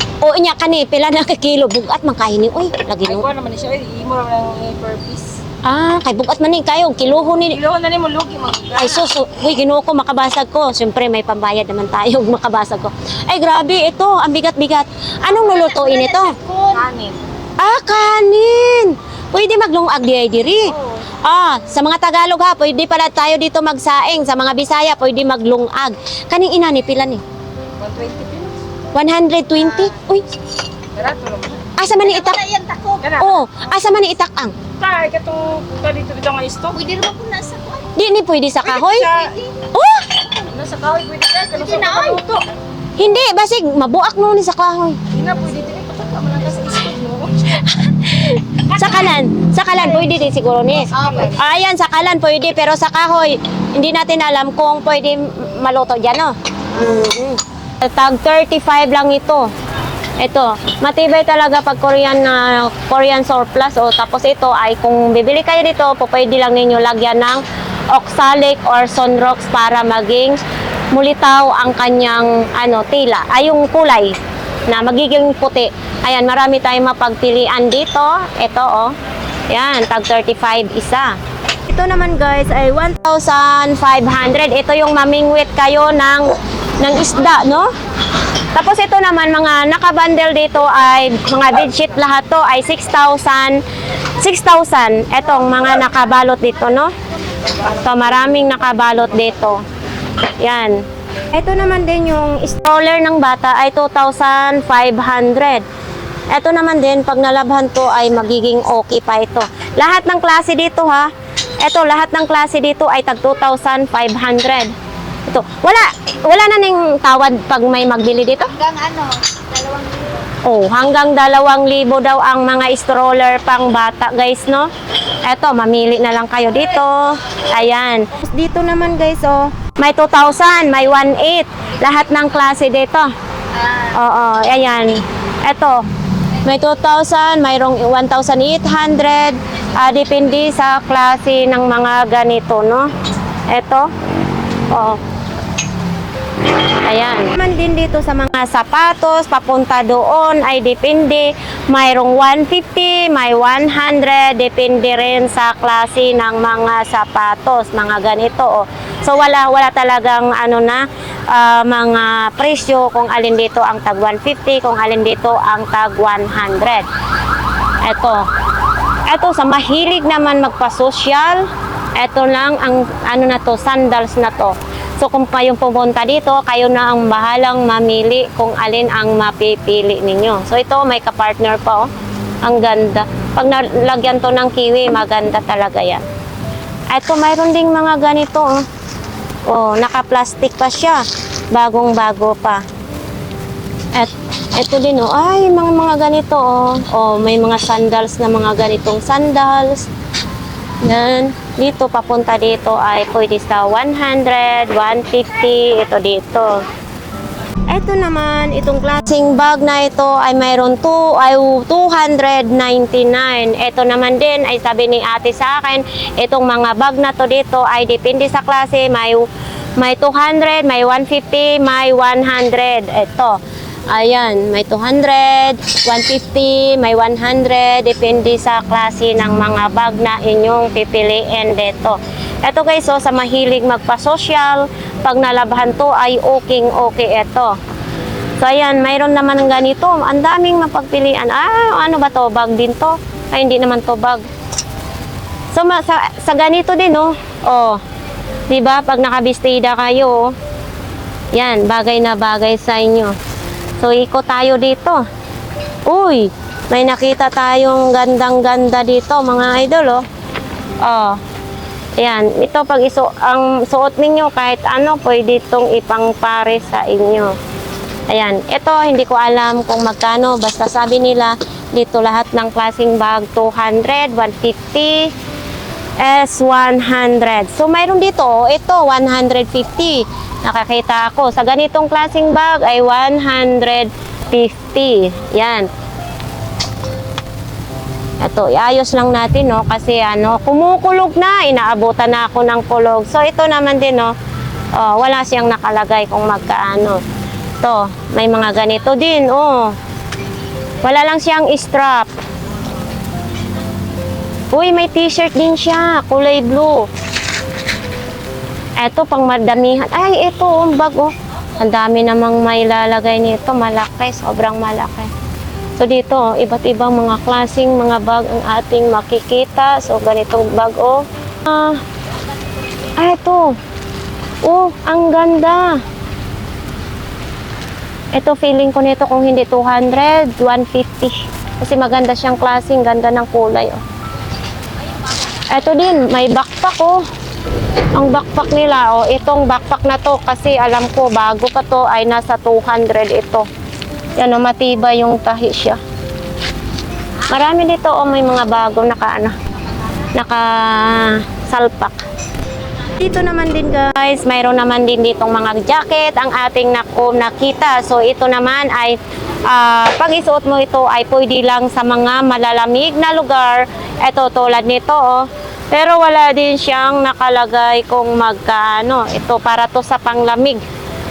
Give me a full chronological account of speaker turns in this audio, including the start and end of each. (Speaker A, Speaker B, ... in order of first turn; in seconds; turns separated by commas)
Speaker A: 0.2-3.2, Speaker B: 3.0-5.4, Speaker A: 5.6-7.6, Speaker B: 7.5-9.1, Speaker A: 8.8-16.3, Speaker B: 15.4-15.8, Speaker C: 15.5-16.8, Speaker B: 16.7-17.2, Speaker A: 17.6-27.2, Speaker B: 20.7-21.1, Speaker B: 27.8-28.6, Speaker A: 28.9-30.3, Speaker B: 30.9-31.7, Speaker A: 31.8-32.4, Speaker C: 32.0-33.1, Speaker B: 33.0-33.5, Speaker A: 33.2-34.5, Speaker B: 34.8-36.9, Speaker C: 36.7-37.9, Speaker A: 38.0-39.1, Speaker B: 38.6-39.5, Speaker A: 39.7-40.1, Speaker B: 40.4-42.4, Speaker C: 41.5-42.2, Speaker A: 43.0-45.0, Speaker B: 45.1-47.5, Speaker A: 47.6-59.5, Speaker B: 48.7-49.1, Speaker C: 51.0-51.4, Speaker A: 60.2-70.4, Speaker A: 70.9-74.2, Speaker A: 74.7-78.9, Speaker A: 79.5-81.2, Speaker A: 81.7-87.7, Speaker A: 88.5-93.6, Speaker A: 94.2-96.9, Speaker A: 97.6-99.6, Speaker A: 100.4-105.6, Speaker A: 106.3-111.1, Speaker A: 111.6-114.7, Speaker A: 115.2-118.5, Speaker C: 118.4-120.1, Speaker A: 120.4-124.7, Speaker A: 125.2-133.1, Speaker C: 133.6-133.9, Speaker A: 133.9-135.8, Speaker A: 136.4-142.9, Speaker A: 143.5-143.9, Speaker A: 144.7-145.0, Speaker A: 146.8-166.9, Speaker A: 167.8-168.2, Speaker A: 169.1-181.9, Speaker A: 182.4-186.1, Speaker A: 186.9-188.6, Speaker A: 189.5-192.6, Speaker A: 193.9-199.9, Speaker A: 200.8-206.6, Speaker A: 207.7-219.3, Speaker A: 219.8-223.4, Speaker A: 223.9-237.6, Speaker A: 238.4-244.2, Speaker A: 245.5-247.8, Speaker A: 248.5-250.3, Speaker A: 251.3-253.1, Speaker A: 253.8-255.0, Speaker A: 255.9-260.0, Speaker A: 260.8-261.2, Speaker A: 262.0-267.3, Speaker A: 268.1-275.1, Speaker A: 276.0-285.7, Speaker A: 288.2-294.1, Speaker A: 294.7-297.0, Speaker A: 297.6-299.7, Speaker A: 300.8-302.1, Speaker A: 304.5-306.9, Speaker A: 308.8-315.1, Speaker A: 315.8-321.8, Speaker A: 323.0-323.6, Speaker A: 324.4-325.8, Speaker A: 328.1-333.8, Speaker A: 335.5-337.0, Speaker A: 337.9-343.4, Speaker A: 344.2-345.8, Speaker A: 347.3-349.3, Speaker A: 350.1-352.0, Speaker A: 353.0-370.6